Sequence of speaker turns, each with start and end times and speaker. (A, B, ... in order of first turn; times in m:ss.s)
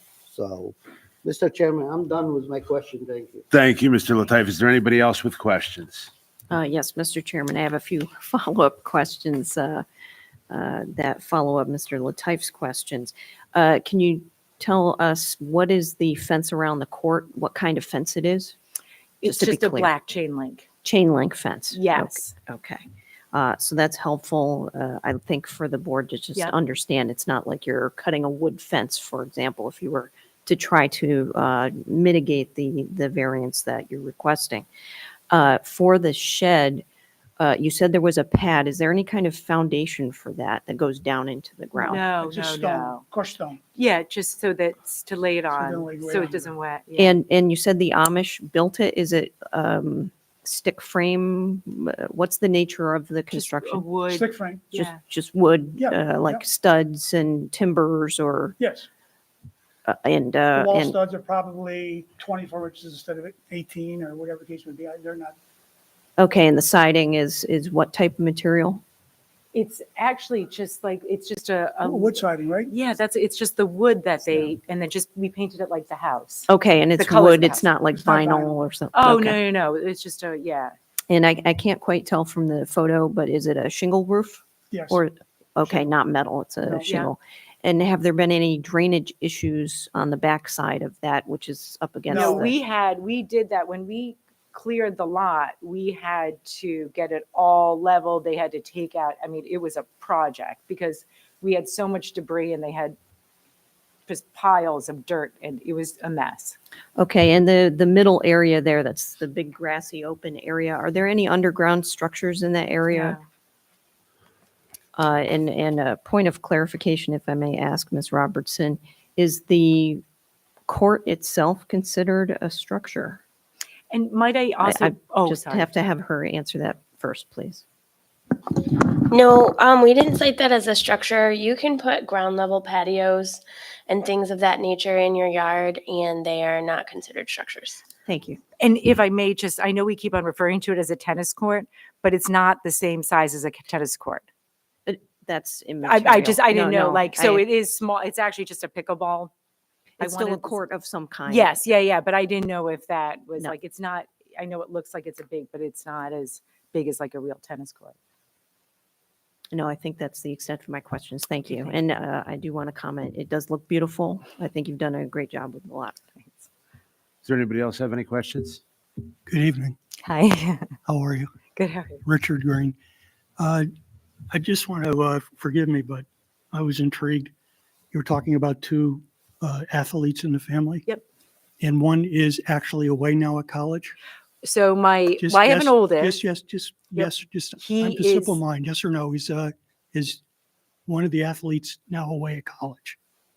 0:00.3-0:03.4 A
0:03.5-0:06.1 B
0:06.5-0:09.8 C
0:10.5-0:18.5 C
0:19.2-0:20.7 D
0:19.2-0:19.9 C
0:20.8-0:34.6 C
0:21.7-0:22.3 D
0:35.3-0:36.8 C
0:37.4-0:42.1 C
0:41.8-0:43.0 D
0:42.2-0:43.6 E
0:43.7-0:47.1 D
0:45.5-0:46.5 E
0:47.0-0:53.9 C
0:53.3-0:55.0 D
0:54.1-0:54.8 E
0:54.7-0:58.6 C
0:55.8-0:56.4 E
0:58.6-0:58.9 E
0:59.8-1:01.0 C
1:00.5-1:05.4 E
1:06.2-1:08.8 C
1:09.5-1:17.6 D
1:11.8-1:12.7 E
1:16.5-1:19.4 C
1:17.9-1:18.5 E
1:18.9-1:20.7 D
1:21.1-1:32.5 C
1:24.7-1:25.0 E
1:26.6-1:27.0 E
1:32.1-1:32.5 E
1:32.1-1:43.0 D
1:44.1-1:46.6 D
1:47.0-1:53.2 C
1:52.9-1:53.2 D
1:55.0-2:00.0 C
2:00.7-2:03.2 C
2:03.9-2:05.7 D
2:04.6-2:07.6 C
2:08.3-2:17.8 F
2:18.0-2:18.4 C
2:18.6-2:24.2 D
2:24.8-2:27.4 C
2:25.8-2:29.3 D
2:30.0-2:31.6 C
2:30.0-2:30.6 D
2:31.2-2:38.0 D
2:39.5-2:46.0 C
2:41.5-2:41.7 D
2:47.2-2:48.6 B
2:49.3-2:49.8 G
2:50.0-2:50.7 D
2:50.9-2:51.3 G
2:51.6-2:52.0 D
2:52.0-2:52.8 G
2:53.4-2:53.7 G
2:54.3-2:57.3 G
2:57.9-3:00.8 G
3:01.6-3:04.0 G
3:04.4-3:06.2 D
3:05.2-3:10.2 G
3:06.9-3:08.4 D
3:10.9-3:13.0 G